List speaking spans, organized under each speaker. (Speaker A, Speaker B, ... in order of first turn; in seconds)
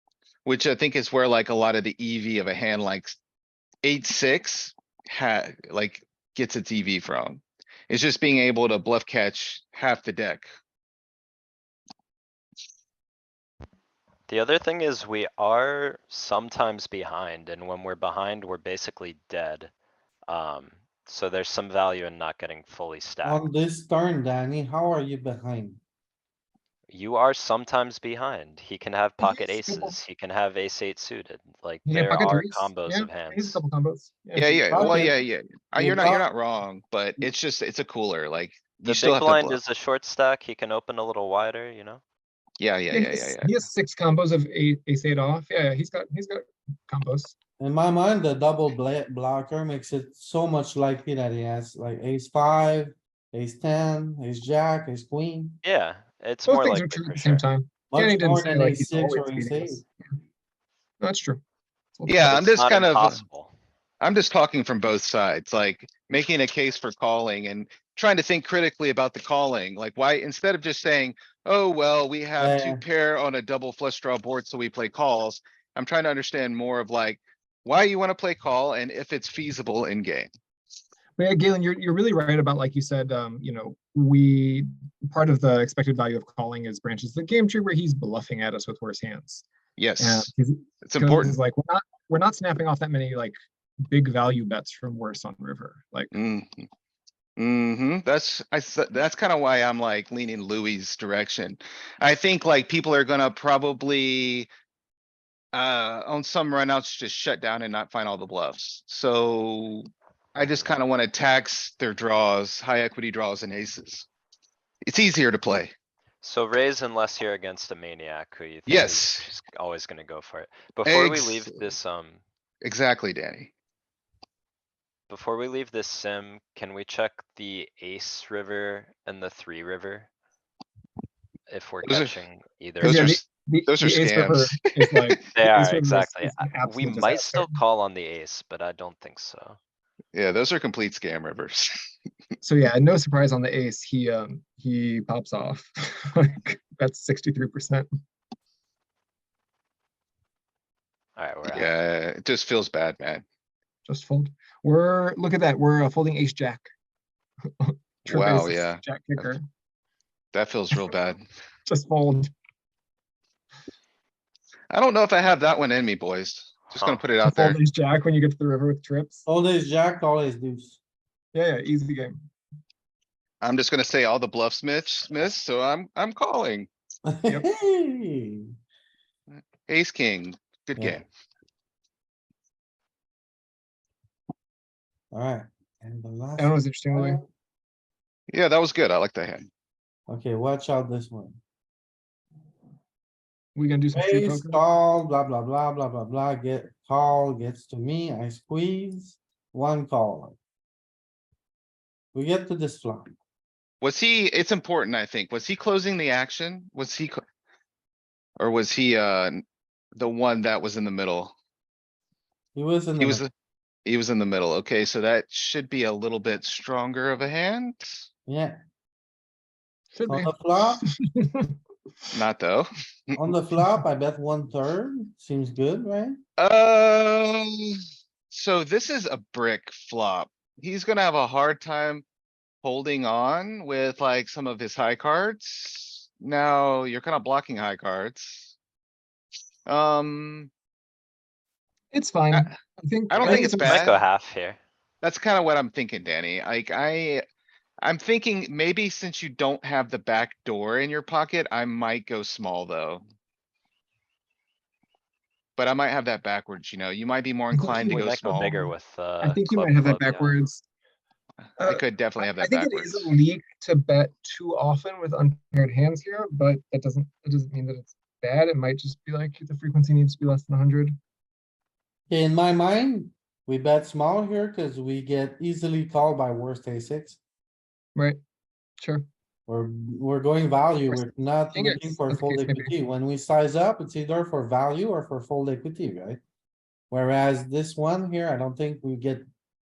Speaker A: 0.4-3.1, 3.8-10.5, 34.4-39.6, 42.6-43.5, 62.0-63.2, 64.0-80.3, 89.8-90.3, 90.8-91.4, 96.1-96.7, 97.4-104.5, 105.5-114.1, 114.8-115.7, 118.7-119.3, 120.8-121.6, 122.6-123.5, 131.8-132.1, 132.8-135.1, 140.1-141.7, 151.5-153.2, 158.0-159.3, 160.3-161.2, 164.7-167.6, 173.4-176.7, 179.7-181.0, 188.3-189.5, 203.8-207.2, 208.4-209.4, 209.9-211.3, 213.0-213.3, 213.8-218.0, 222.1-223.2, 226.4-227.8, 228.3-232.0, 232.6-238.5, 239.7-240.5, 243.1-244.0, 245.0-247.2, 247.8-253.0, 255.6-258.6, 261.6-263.1
Speaker B: 14.3-19.7, 20.3-23.5, 26.9-33.6, 38.8-42.0, 55.6-57.5, 62.2-63.5, 116.2-122.2, 125.1-130.1, 131.5-133.1, 135.3-139.6, 151.2-151.7, 166.7-167.0, 243.2-244.6, 257.9-260.4
Speaker C: 23.2-25.8, 34.7-35.1, 35.8-36.2, 47.6-55.6, 57.9-59.8, 72.4-72.8, 169.2-170.8, 177.1-178.5, 180.8-181.0, 185.1-187.2, 190.1-191.4, 193.9-200.3, 202.1-203.1, 212.5-213.2, 218.3-218.6, 220.1-220.8, 223.2-226.2, 272.1-277.2, 279.5-286.2, 286.9-289.2
Speaker D: 29.2-30.0, 31.9-34.9, 42.9-47.4, 56.4-59.9, 61.0-61.4, 62.0-62.5, 81.2-89.4, 90.0-96.1, 132.8-137.6, 142.4-147.9, 153.8-156.7, 157.5-159.4, 161.7-162.3, 167.2-169.2, 171.3-172.2, 186.4-187.2, 193.5-194.6, 219.9-221.5, 241.9-243.8, 257.5-260.6, 261.6-271.0, 277.9-278.2, 278.8-279.1, 280.9-282.7